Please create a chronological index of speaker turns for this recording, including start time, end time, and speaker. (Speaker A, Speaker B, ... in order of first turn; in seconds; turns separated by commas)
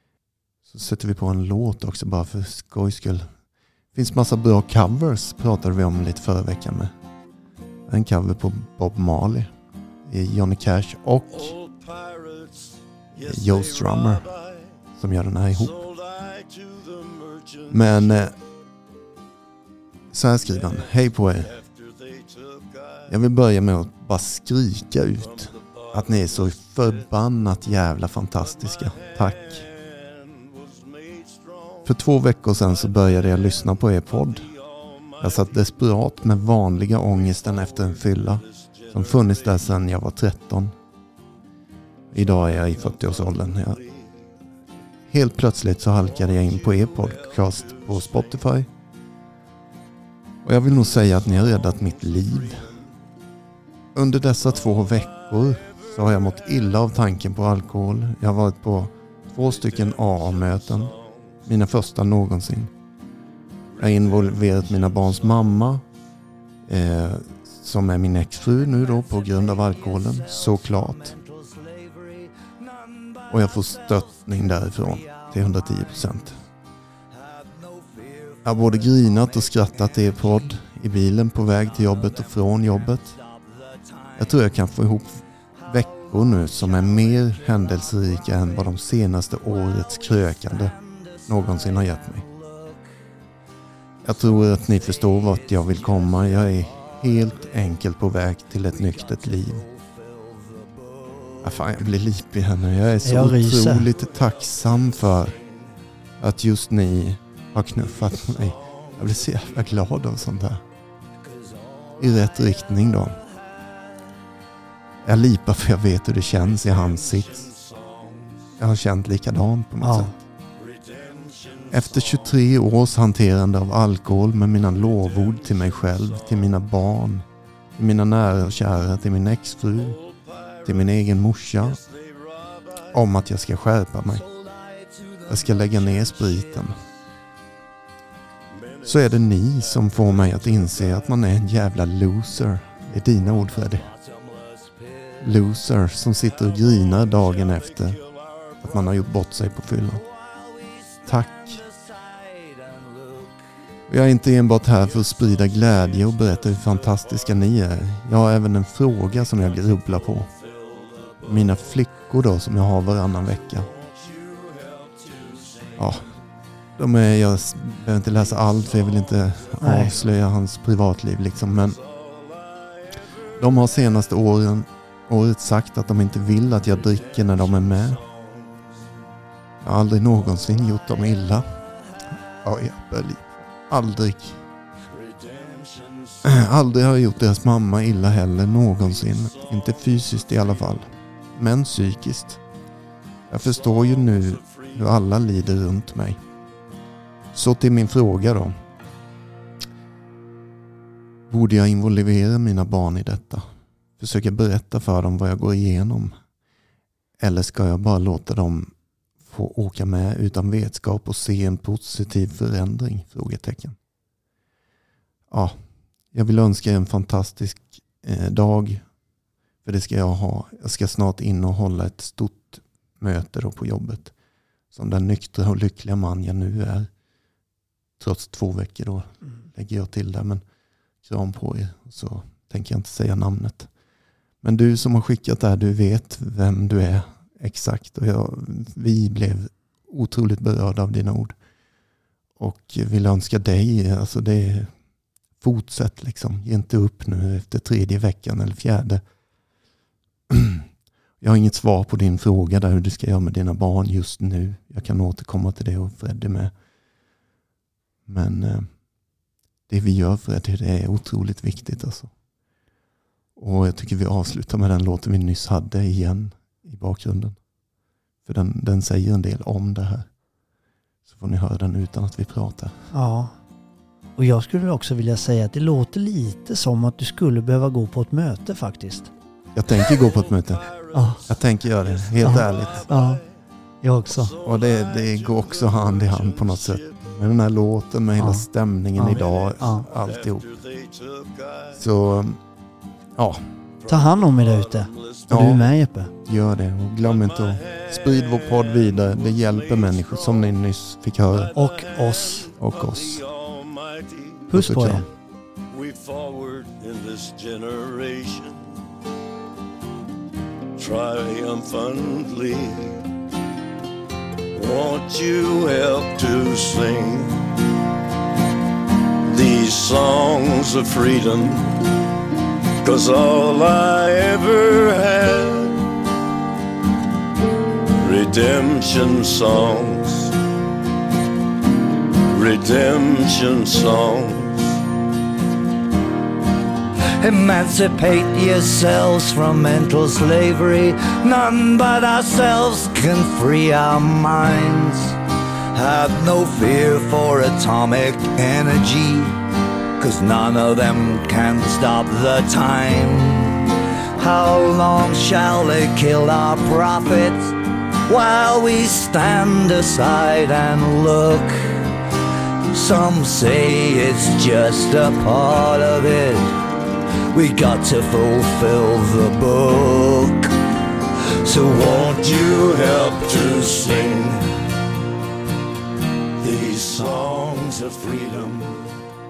Speaker A: 0.7-3.3, Speaker A: 3.9-6.9, Speaker A: 7.9-9.5, Speaker A: 10.1-11.5, Speaker B: 11.3-14.7, Speaker A: 13.2-14.3, Speaker A: 15.0-15.8, Speaker B: 15.6-18.3, Speaker A: 17.7-18.4, Speaker A: 20.1-21.5, Speaker B: 21.4-23.1, Speaker A: 23.1-29.6, Speaker B: 25.2-26.9, Speaker B: 28.6-31.9, Speaker A: 31.8-34.5, Speaker B: 33.0-35.7, Speaker A: 35.2-40.7, Speaker B: 37.2-39.7, Speaker A: 42.1-43.8, Speaker B: 42.5-44.1, Speaker A: 45.1-48.7, Speaker B: 46.2-48.4, Speaker A: 50.5-52.7, Speaker B: 51.6-52.8, Speaker A: 54.0-62.7, Speaker B: 59.5-61.2, Speaker A: 63.8-65.8, Speaker B: 64.0-65.3, Speaker A: 66.7-71.2, Speaker C: 68.3-76.3, Speaker A: 73.3-76.4, Speaker C: 77.1-80.6, Speaker A: 78.4-83.2, Speaker C: 81.4-84.6, Speaker A: 84.2-90.7, Speaker C: 85.6-88.8, Speaker C: 89.3-93.0, Speaker A: 91.3-92.2, Speaker A: 94.0-99.7, Speaker C: 94.3-97.8, Speaker C: 98.5-101.8, Speaker A: 101.4-105.4, Speaker D: 103.0-103.9, Speaker B: 104.6-105.3, Speaker A: 106.2-110.6, Speaker C: 111.3-112.2, Speaker A: 112.0-113.2, Speaker A: 115.0-117.5, Speaker B: 116.5-118.5, Speaker A: 118.6-120.1, Speaker D: 119.8-120.1, Speaker B: 120.6-122.3, Speaker A: 121.7-127.2, Speaker B: 124.9-126.2, Speaker A: 127.8-130.0, Speaker B: 129.8-130.7, Speaker A: 130.7-131.8, Speaker B: 131.6-132.8, Speaker A: 132.8-134.2, Speaker C: 134.1-136.9, Speaker A: 135.3-136.8, Speaker B: 138.5-141.1, Speaker A: 138.8-143.9, Speaker C: 143.6-145.4, Speaker A: 145.2-148.0, Speaker B: 146.8-148.6, Speaker A: 148.6-150.0, Speaker C: 150.0-153.5, Speaker A: 151.1-151.6, Speaker A: 153.9-160.3, Speaker B: 155.0-157.4, Speaker B: 159.4-161.6, Speaker A: 161.2-163.7, Speaker B: 163.7-166.0, Speaker A: 165.8-166.1, Speaker A: 166.8-171.8, Speaker B: 168.7-169.2, Speaker D: 169.6-169.9, Speaker B: 171.8-173.0, Speaker A: 173.4-178.0, Speaker B: 176.8-178.3, Speaker A: 179.6-181.5, Speaker A: 182.4-184.4, Speaker B: 184.9-186.2, Speaker A: 186.2-192.4, Speaker B: 189.1-190.5, Speaker A: 193.3-196.2, Speaker B: 193.7-194.8, Speaker A: 197.3-198.6, Speaker A: 201.3-203.4, Speaker A: 204.0-206.1, Speaker A: 207.2-208.7, Speaker A: 209.2-213.8, Speaker A: 215.3-215.6, Speaker A: 216.1-218.8, Speaker A: 219.7-224.1, Speaker A: 224.7-226.9, Speaker A: 228.0-230.4, Speaker A: 231.0-233.7, Speaker A: 234.4-241.3, Speaker A: 242.4-244.7, Speaker A: 245.4-249.0, Speaker A: 250.3-250.7, Speaker A: 251.2-256.5, Speaker A: 258.1-258.7, Speaker A: 259.7-262.1, Speaker A: 263.4-267.4, Speaker A: 268.2-270.1, Speaker A: 271.1-272.8, Speaker D: 272.9-273.4, Speaker D: 274.2-279.1, Speaker A: 279.6-280.7, Speaker B: 279.9-283.4, Speaker D: 280.9-281.2, Speaker A: 281.2-282.9, Speaker D: 282.2-283.2, Speaker D: 283.8-284.3, Speaker B: 284.1-287.0, Speaker A: 284.4-290.4, Speaker D: 288.2-288.5, Speaker D: 289.0-289.9, Speaker B: 289.1-291.8, Speaker A: 291.8-292.4, Speaker A: 293.2-293.4, Speaker B: 293.8-295.7, Speaker D: 293.9-296.1, Speaker A: 295.3-295.7, Speaker A: 296.3-301.5, Speaker B: 297.0-300.6, Speaker B: 301.3-304.5, Speaker D: 301.6-302.5, Speaker A: 302.6-303.2, Speaker D: 304.5-305.1, Speaker A: 304.5-305.1, Speaker B: 305.7-308.7, Speaker B: 310.8-313.0, Speaker B: 314.5-317.4, Speaker B: 319.3-321.8, Speaker B: 322.8-325.9, Speaker B: 328.0-330.4, Speaker B: 332.2-334.8, Speaker C: 337.2-345.2, Speaker C: 345.7-349.4, Speaker C: 350.0-362.0, Speaker C: 362.7-366.7, Speaker C: 367.3-370.6, Speaker C: 371.3-372.2, Speaker B: 371.7-374.4, Speaker B: 376.4-378.9